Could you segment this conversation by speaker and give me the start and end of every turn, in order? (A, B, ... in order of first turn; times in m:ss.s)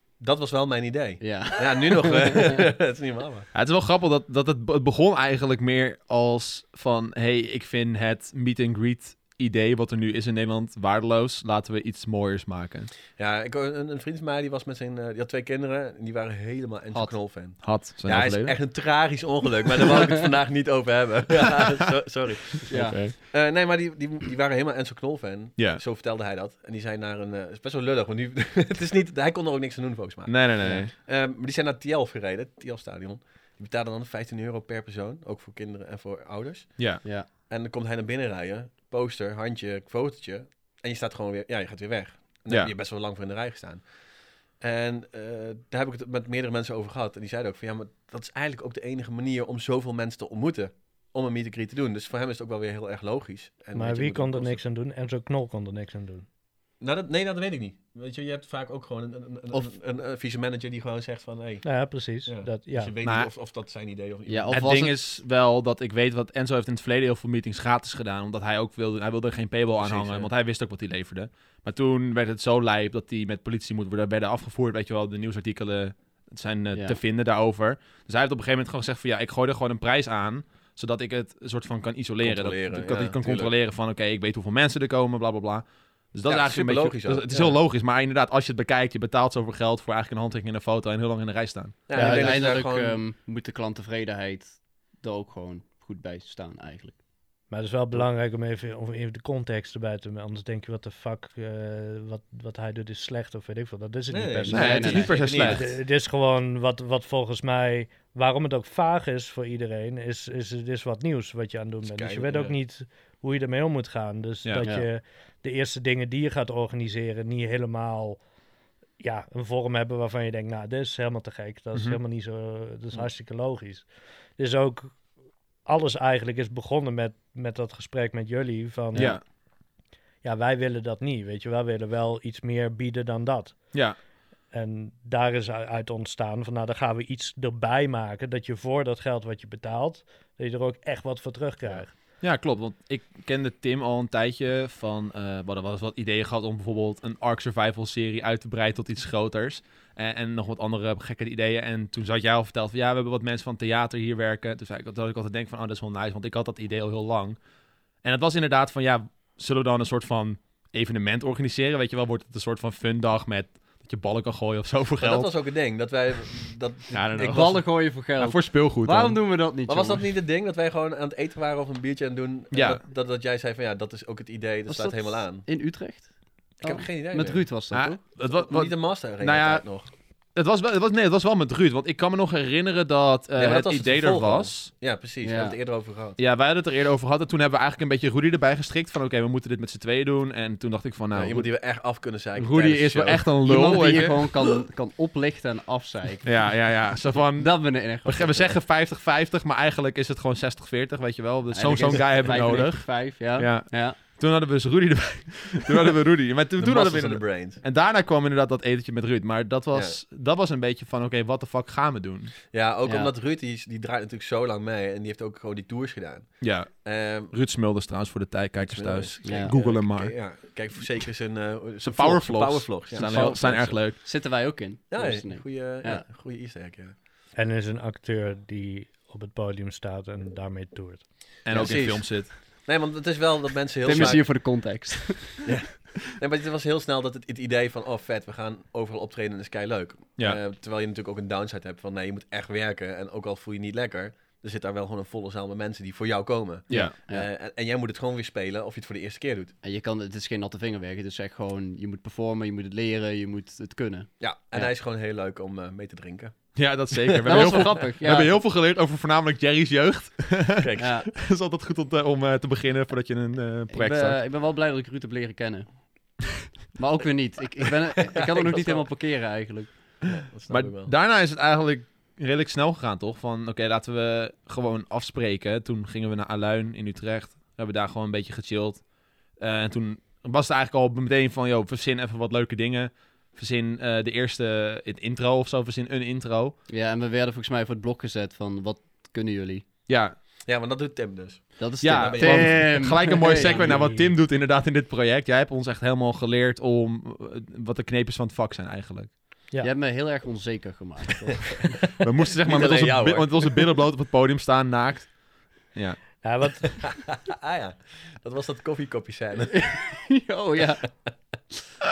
0:00.2-0:03.5 A
0:01.2-0:02.6 B
0:03.5-0:12.9 C
0:13.2-0:43.9 A
0:17.6-0:18.6 C
0:19.9-0:20.2 B
0:22.6-0:23.1 C
0:22.7-0:23.0 B
0:30.3-0:30.9 C
0:36.8-0:37.0 C
0:37.0-0:37.3 B
0:44.5-0:54.6 A
0:53.7-0:56.2 D
0:56.8-1:01.6 A
1:01.6-1:02.9 D
1:02.2-1:04.9 A
1:03.0-1:03.3 C
1:04.3-1:05.0 B
1:04.5-1:31.8 C
1:09.8-1:10.3 B
1:22.2-1:23.5 A
1:26.2-1:27.6 A
1:31.9-1:33.0 A
1:31.9-1:37.0 B
1:32.0-1:32.3 D
1:37.5-1:58.2 D
1:44.1-1:45.7 A
1:44.4-1:45.1 B
1:44.5-1:45.7 C
1:51.8-1:52.5 A
1:59.0-2:05.1 D
2:01.7-2:02.0 C
2:05.6-2:09.3 D
2:08.9-2:09.2 B
2:09.0-2:09.2 C
2:10.2-2:13.8 D
2:14.5-2:21.9 D
2:22.2-2:37.4 C
2:38.0-2:45.3 C
2:45.0-2:47.6 A
2:46.9-2:49.2 C
2:47.2-2:50.0 B
2:49.7-2:55.4 A
2:52.5-2:52.8 C
2:54.7-2:58.0 B
2:56.6-2:57.4 A
2:57.7-3:04.7 C
2:58.3-2:59.9 A
3:03.4-3:06.2 A
3:05.2-3:05.6 B
3:06.2-3:11.5 C
3:11.1-3:13.3 A
3:12.4-3:14.3 C
3:13.4-3:16.7 B
3:16.2-3:32.3 C
3:17.4-3:18.6 B
3:21.5-3:24.0 B
3:26.6-3:27.6 A
3:29.7-3:30.0 A
3:32.5-3:37.3 A
3:32.8-3:33.1 B
3:36.4-3:40.2 C
3:38.6-3:43.7 A
3:39.2-3:39.5 B
3:41.8-3:44.0 C
3:43.0-3:46.0 B
3:44.9-3:47.0 A
3:47.4-3:51.4 D
3:51.4-3:52.3 C
3:51.5-3:54.4 A
3:51.5-3:52.0 B
3:53.8-3:55.4 B
3:53.9-3:54.2 C
3:55.4-4:09.5 A
4:06.7-4:07.3 B
4:09.6-4:14.7 B
4:14.2-4:16.4 A
4:16.5-4:24.2 C
4:17.2-4:18.4 B
4:17.3-4:17.7 A
4:20.6-4:20.9 A
4:20.8-4:21.1 B
4:23.7-4:30.1 B
4:28.1-4:28.8 A
4:30.1-4:30.9 A
4:30.5-4:38.8 C
4:39.4-4:46.6 C
4:46.7-4:49.6 B
4:49.9-4:50.2 C
4:50.4-4:53.8 A
4:51.6-4:53.7 B
4:51.8-4:59.1 C
4:53.4-4:54.1 D
4:59.6-5:01.8 B
5:02.0-5:06.2 C
5:02.4-5:03.6 A
5:06.2-5:07.1 D
5:07.2-5:10.0 A
5:09.4-5:11.5 B